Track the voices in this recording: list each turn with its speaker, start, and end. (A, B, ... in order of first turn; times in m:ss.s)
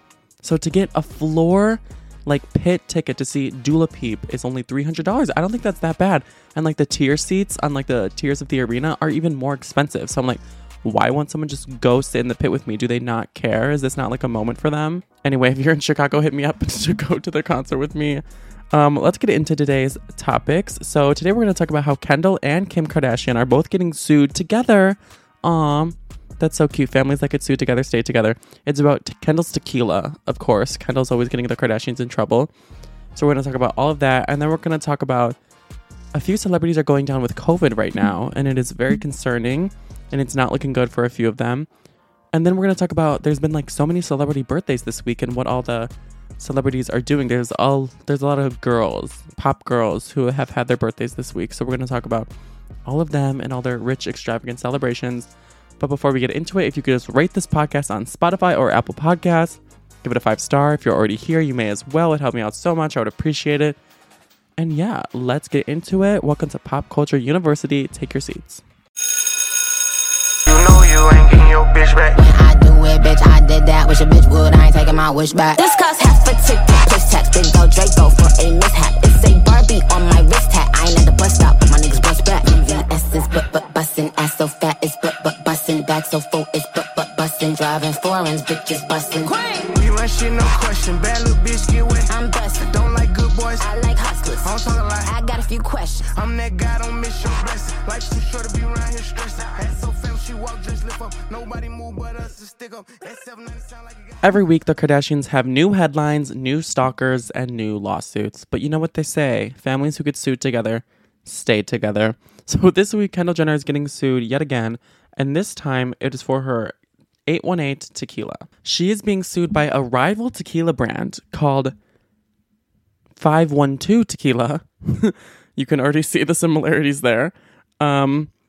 0:00.4-0:32.5 A
0:33.2-0:35.4 A
0:36.1-0:41.7 A
0:42.3-0:52.3 A
0:52.8-1:03.8 A
1:04.6-1:08.6 A
1:10.5-1:12.1 B
1:12.2-1:29.4 C
1:29.7-1:32.1 B
1:32.1-1:32.8 C
1:32.7-1:33.6 B
1:33.6-1:36.1 C
1:34.4-1:35.1 B
1:36.2-1:44.1 B
1:44.2-1:56.7 A
1:57.3-2:01.8 A
2:03.2-2:08.3 A